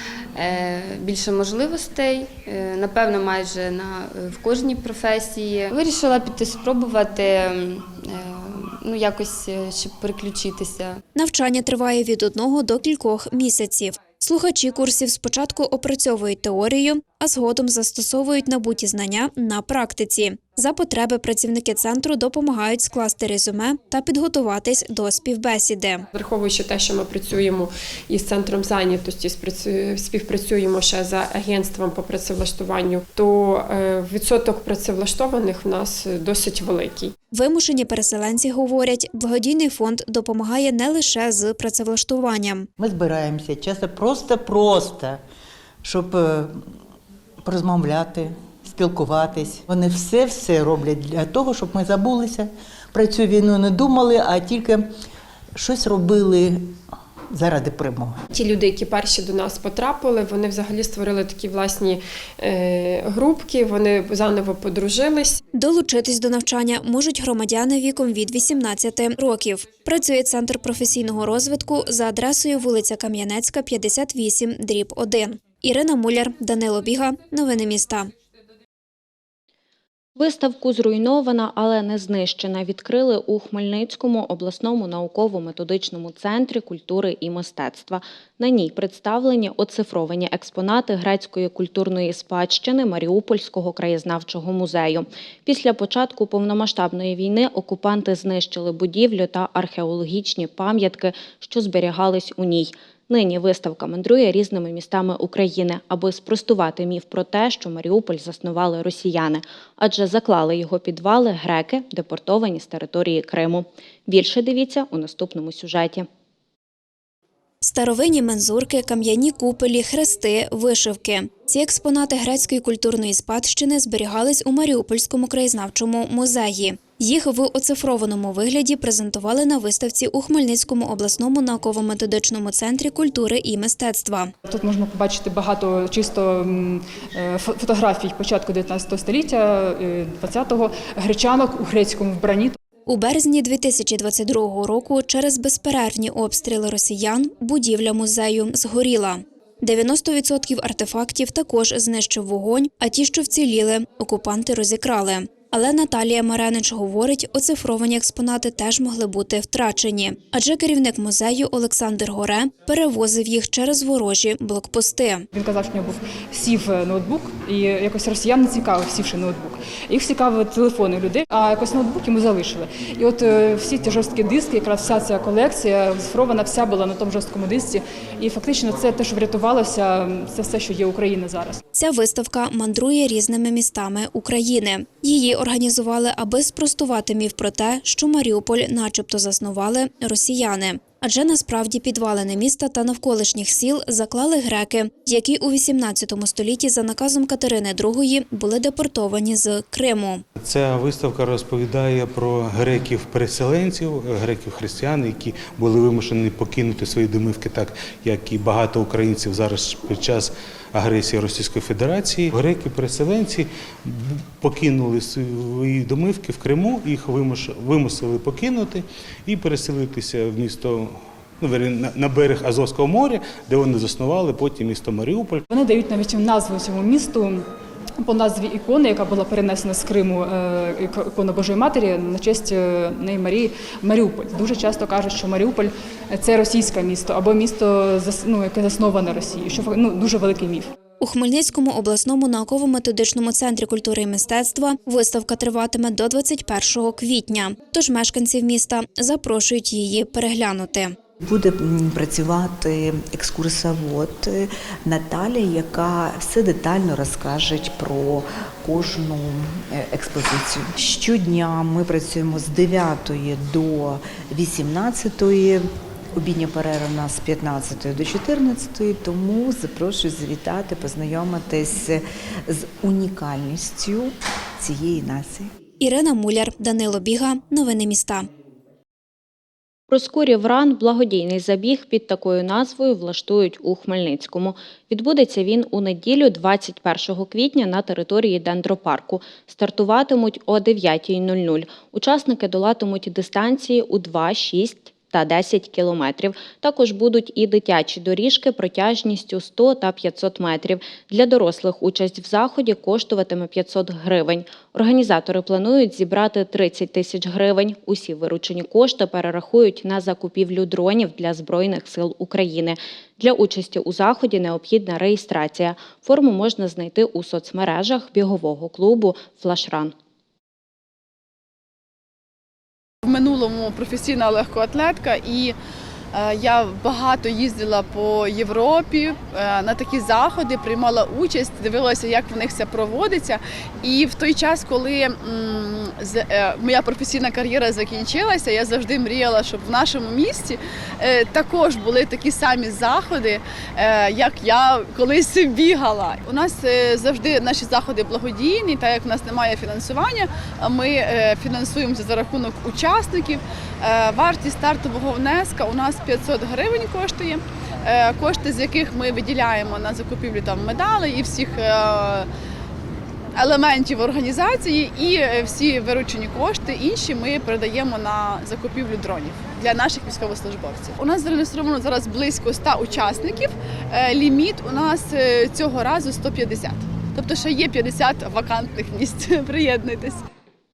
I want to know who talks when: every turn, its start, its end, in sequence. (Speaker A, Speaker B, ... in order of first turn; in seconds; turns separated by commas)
Speaker A: 0.3-11.0, Speaker B: 11.1-26.1, Speaker C: 26.1-37.1, Speaker B: 37.3-42.7, Speaker D: 42.8-45.2, Speaker D: 45.8-46.5, Speaker D: 47.4-54.9, Speaker D: 55.6-56.7, Speaker D: 57.3-58.1, Speaker C: 58.3-65.4, Speaker B: 65.5-78.1, Speaker E: 80.2-116.0, Speaker B: 117.6-134.3, Speaker F: 134.4-142.6, Speaker B: 142.8-165.2, Speaker F: 165.3-181.6, Speaker B: 181.7-200.2, Speaker G: 200.4-225.4, Speaker F: 225.5-227.5, Speaker F: 228.0-240.7, Speaker B: 241.0-250.9, Speaker H: 251.2-265.6, Speaker H: 266.2-275.5, Speaker B: 275.8-278.3, Speaker E: 279.9-319.9, Speaker I: 323.0-325.5, Speaker I: 326.1-362.3, Speaker I: 363.4-380.2